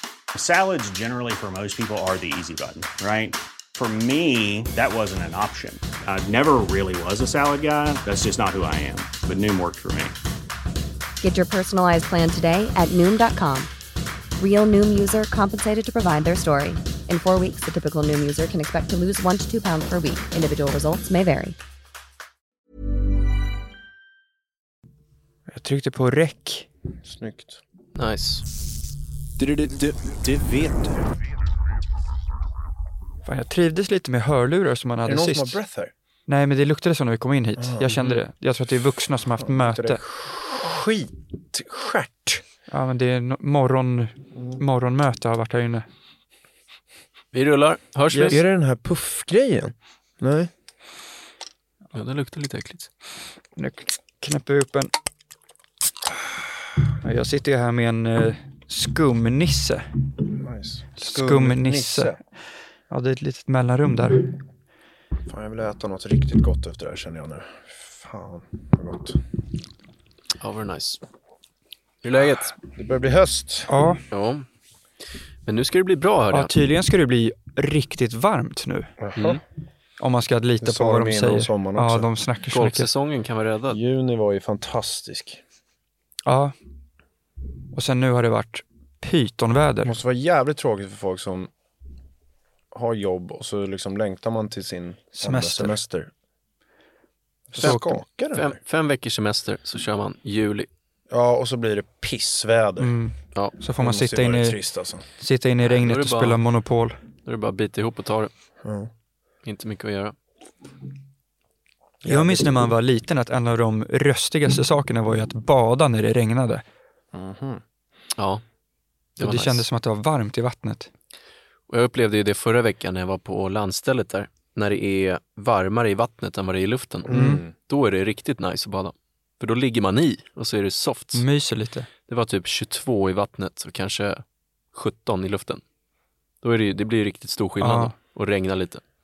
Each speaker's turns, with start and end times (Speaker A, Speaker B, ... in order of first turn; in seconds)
Speaker A: 0.3-10.1
Speaker B: 11.2-13.7, 14.4-21.6
Speaker C: 25.5-26.7, 33.2-35.6, 36.3-40.0, 42.7-45.9, 53.6-54.9, 57.0-59.9, 61.0-62.1, 62.9-64.4, 73.7-74.0, 76.3-78.9, 80.0-82.9, 86.3-86.5, 87.7-89.9, 95.2-95.8, 97.6-97.9, 102.8-107.0, 112.0-116.6, 119.2-120.9, 127.1-127.4, 131.2-131.9, 137.6-137.9
Speaker D: 27.1-27.6, 29.4-31.2, 35.1-35.9, 37.6-38.0, 39.4-42.4, 44.4-44.6, 48.1-50.5, 60.4-62.2, 65.3-69.2, 72.7-73.7, 79.0-79.4, 80.6-82.1, 83.7-85.4, 89.8-91.5, 92.7-96.1, 97.5-98.6, 101.1-103.0, 103.8-105.0, 108.6-108.9, 112.0-112.7, 117.1-117.6, 127.1-127.5
Speaker E: 28.0-28.5, 47.3-48.4, 51.9-52.9, 70.4-71.0, 72.0-72.6, 74.1-74.5, 75.5-76.5, 82.5-83.8, 97.6-100.7, 105.7-106.4, 107.2-108.3, 109.4-110.2, 118.2-118.4, 119.2-119.6, 121.7-131.2, 132.1-135.6, 136.4-138.8